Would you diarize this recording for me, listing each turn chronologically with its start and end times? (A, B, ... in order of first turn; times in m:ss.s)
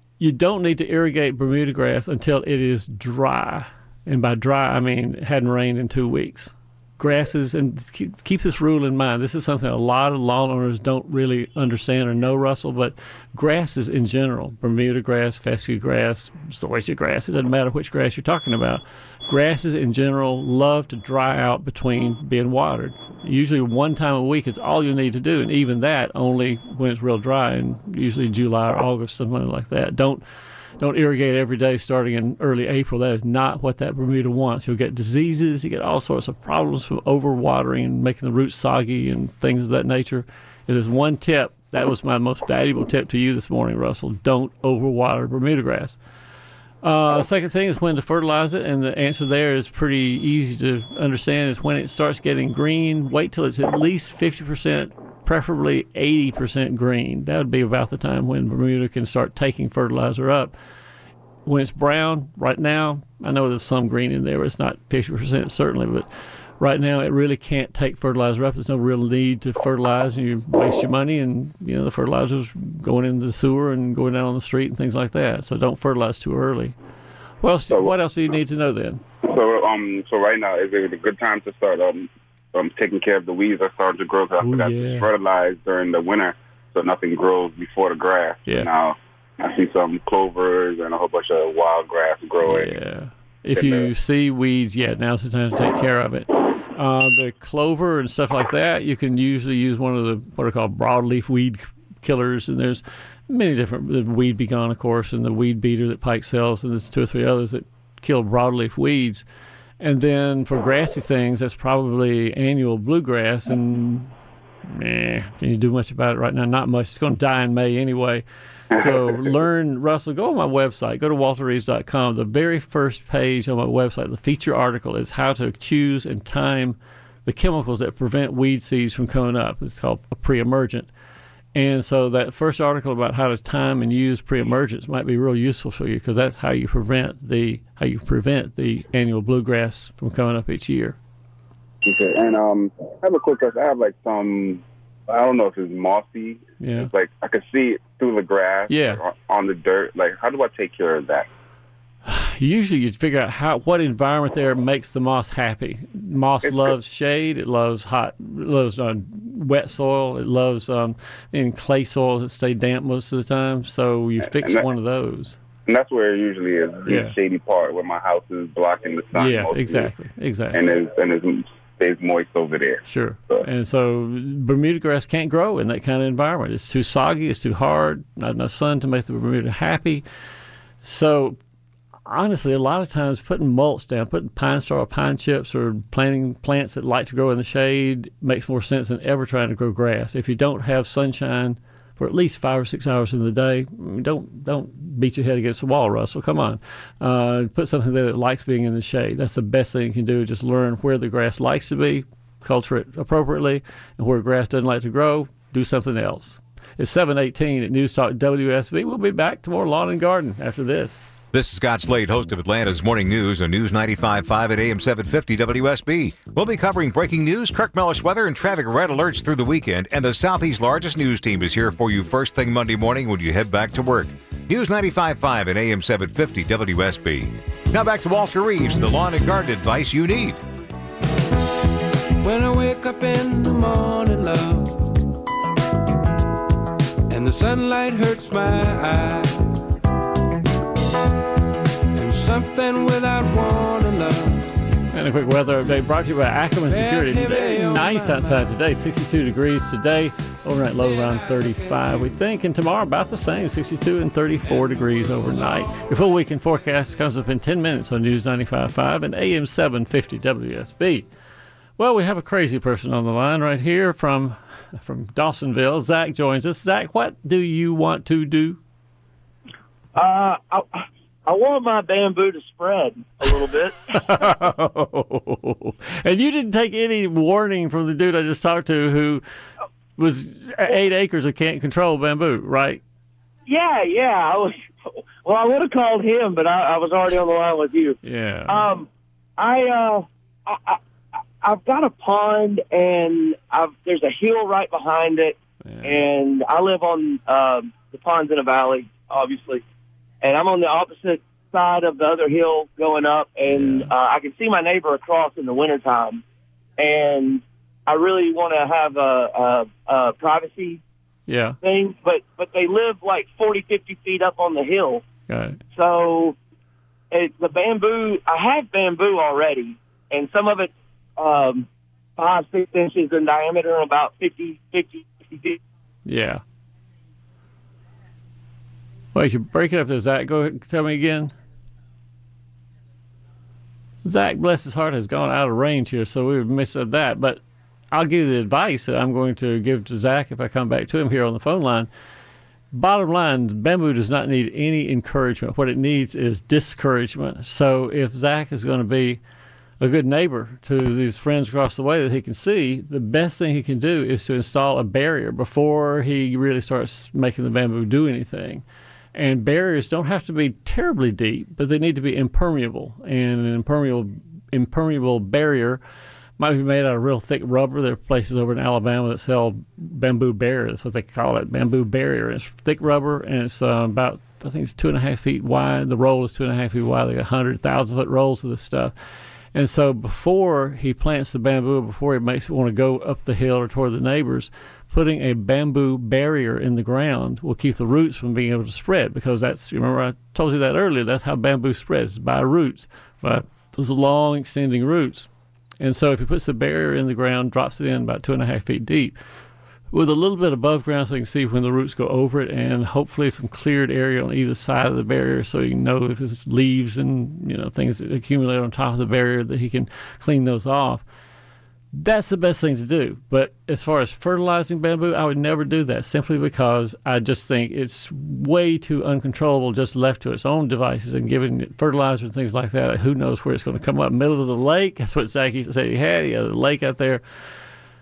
0:00.2-0:30.2 A
0:30.8-0:46.0 A
0:46.8-1:00.5 A
1:01.4-1:06.1 A
1:06.6-1:16.7 A
1:17.4-1:19.0 A
1:17.7-1:18.0 B
1:19.2-1:32.7 B
1:24.4-1:25.0 A
1:32.4-1:49.2 A
1:33.5-1:33.9 B
1:49.8-1:54.1 A
1:54.7-2:10.9 A
1:58.7-1:59.3 B
2:11.5-2:21.0 A
2:21.8-2:31.3 B
2:26.6-2:26.9 A
2:28.7-2:29.0 A
2:32.0-2:45.4 A
2:44.2-2:44.6 B
2:45.7-2:49.9 B
2:46.8-2:47.1 A
2:49.1-2:50.6 A
2:50.5-2:53.4 B
2:52.8-3:00.0 A
3:00.8-3:01.4 A
3:02.0-3:31.0 A
3:31.3-3:50.4 C
3:52.2-3:55.1 D
3:57.1-3:59.7 D
4:01.9-4:04.5 D
4:04.9-4:21.0 A
4:06.7-4:08.5 D
4:11.3-4:12.0 D
4:21.8-4:28.6 A
4:29.9-4:33.8 E
4:33.9-4:39.2 A
4:40.0-4:42.8 A
4:43.5-4:44.5 E
4:45.2-4:48.9 E
4:48.0-4:48.7 A
4:49.4-4:50.8 E
4:51.4-4:59.6 E
4:55.6-4:56.0 A
5:00.2-5:06.2 E
5:03.5-5:03.9 A
5:06.8-5:10.8 E
5:11.3-5:11.6 A
5:11.6-5:15.0 E
5:15.3-5:15.6 A
5:15.7-5:16.4 E
5:17.1-5:25.6 E
5:26.0-5:26.4 A
5:29.1-5:31.3 A
5:34.0-5:41.9 A
5:42.7-5:49.2 A
5:49.8-5:58.6 A
5:59.1-6:05.8 A
6:06.4-6:18.9 A
6:19.5-6:35.3 A
6:35.8-6:39.1 A
6:39.9-6:51.0 A
6:51.9-7:07.2 A